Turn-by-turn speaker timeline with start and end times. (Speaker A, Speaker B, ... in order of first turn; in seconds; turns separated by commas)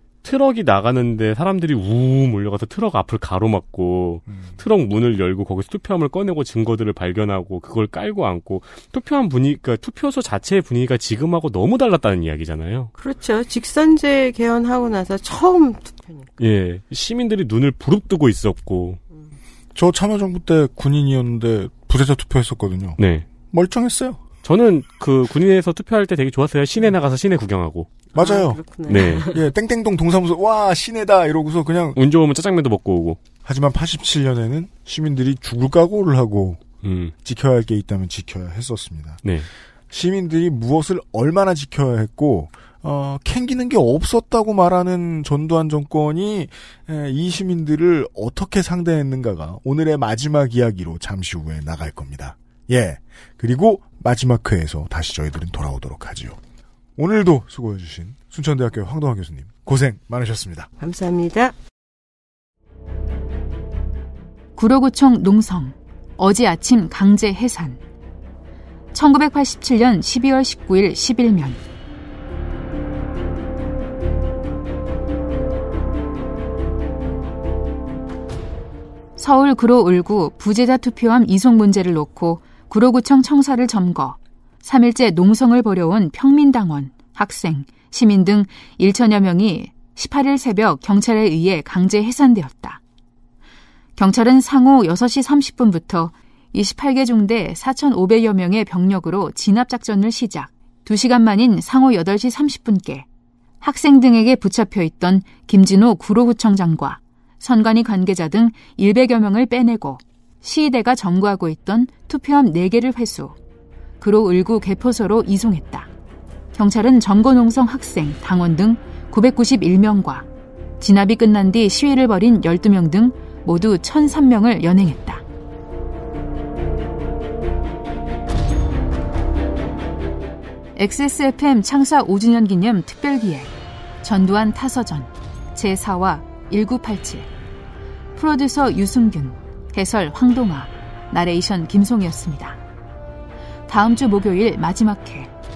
Speaker A: 0.2-12.9, Speaker B: 4.3-4.6, Speaker C: 13.0-16.3, Speaker A: 16.4-19.0, Speaker B: 19.8-24.2, Speaker A: 23.0-23.3, Speaker A: 24.4-27.9, Speaker B: 28.1-32.0, Speaker C: 28.2-29.4, Speaker A: 28.9-29.3, Speaker A: 31.9-33.2, Speaker B: 33.5-36.7, Speaker A: 36.8-37.1, Speaker B: 37.2-39.2, Speaker B: 39.9-56.4, Speaker B: 57.0-60.7, Speaker C: 60.8-61.5, Speaker D: 64.6-67.8, Speaker D: 68.9-71.6, Speaker D: 79.2-92.8, Speaker D: 94.0-103.1, Speaker D: 103.6-113.4, Speaker D: 114.0-115.9, Speaker D: 116.5-120.3, Speaker D: 120.8-125.2, Speaker D: 130.8-133.5, Speaker D: 134.0-137.3, Speaker D: 138.2-142.6, Speaker D: 143.7-145.3